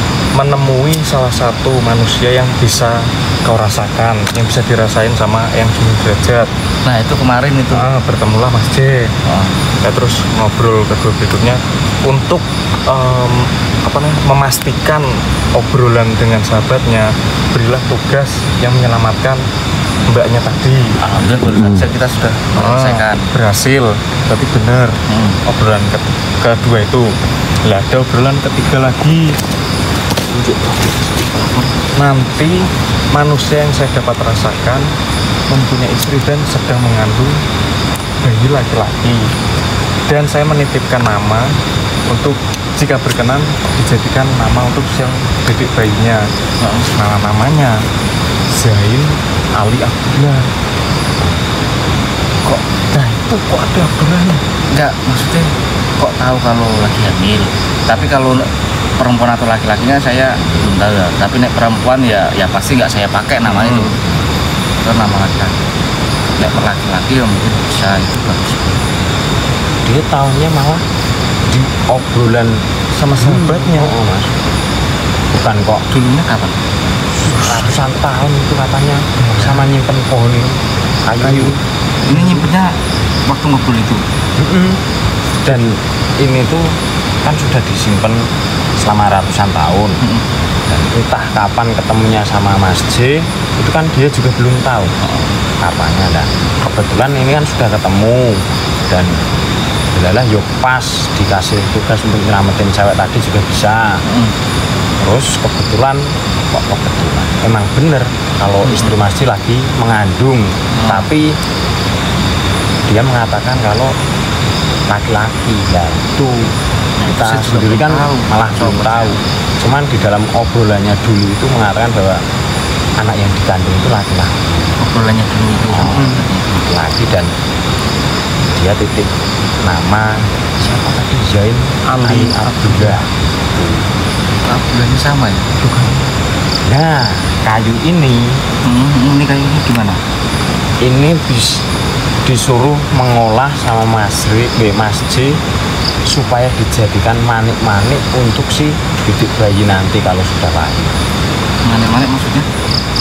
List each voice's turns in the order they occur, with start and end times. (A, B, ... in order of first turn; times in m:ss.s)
0:00.3-0:06.5 A
0:06.8-0:07.9 B
0:07.7-0:09.1 A
0:09.2-0:09.5 B
0:09.8-0:19.4 A
0:20.0-0:21.0 A
0:21.0-0:23.3 B
0:21.4-0:21.9 C
0:22.5-0:29.3 A
0:25.1-0:25.4 B
0:31.3-0:31.7 B
0:31.9-0:34.9 A
0:35.5-0:37.4 A
0:38.2-0:39.3 A
0:40.1-0:41.5 A
0:42.1-0:46.2 A
0:46.6-0:46.9 B
0:46.9-0:47.8 A
0:48.5-0:50.5 A
0:52.4-0:54.4 A
0:54.7-1:04.0 B
1:00.4-1:00.7 C
1:04.8-1:05.6 B
1:06.4-1:08.8 B
1:09.8-1:10.8 C
1:11.5-1:12.6 C
1:12.9-1:14.0 A
1:13.2-1:14.3 C
1:15.3-1:15.8 C
1:15.9-1:16.6 B
1:17.2-1:17.8 A
1:17.3-1:21.6 C
1:19.2-1:19.7 A
1:21.2-1:22.5 A
1:22.0-1:22.7 B
1:23.2-1:24.0 B
1:24.4-1:24.8 C
1:25.4-1:26.7 C
1:27.2-1:28.3 C
1:28.8-1:30.0 C
1:30.7-1:34.9 C
1:35.0-1:35.3 B
1:35.6-1:39.1 C
1:39.9-1:44.0 C
1:44.0-1:44.3 B
1:45.0-1:51.3 C
1:48.6-1:48.9 B
1:50.8-1:51.1 B
1:52.9-1:53.9 C
1:54.9-1:56.5 C
1:57.0-1:59.2 B
1:57.0-2:02.2 C
2:03.0-2:04.8 C
2:04.8-2:06.6 B
2:05.6-2:06.1 C
2:06.6-2:07.3 C
2:08.5-2:13.8 C
2:11.8-2:13.0 A
2:14.4-2:15.4 B
2:15.6-2:16.1 A
2:16.6-2:18.4 C
2:18.6-2:20.0 B
2:20.8-2:21.6 C
2:22.2-2:25.4 C
2:26.1-2:30.9 C
2:31.6-2:32.5 B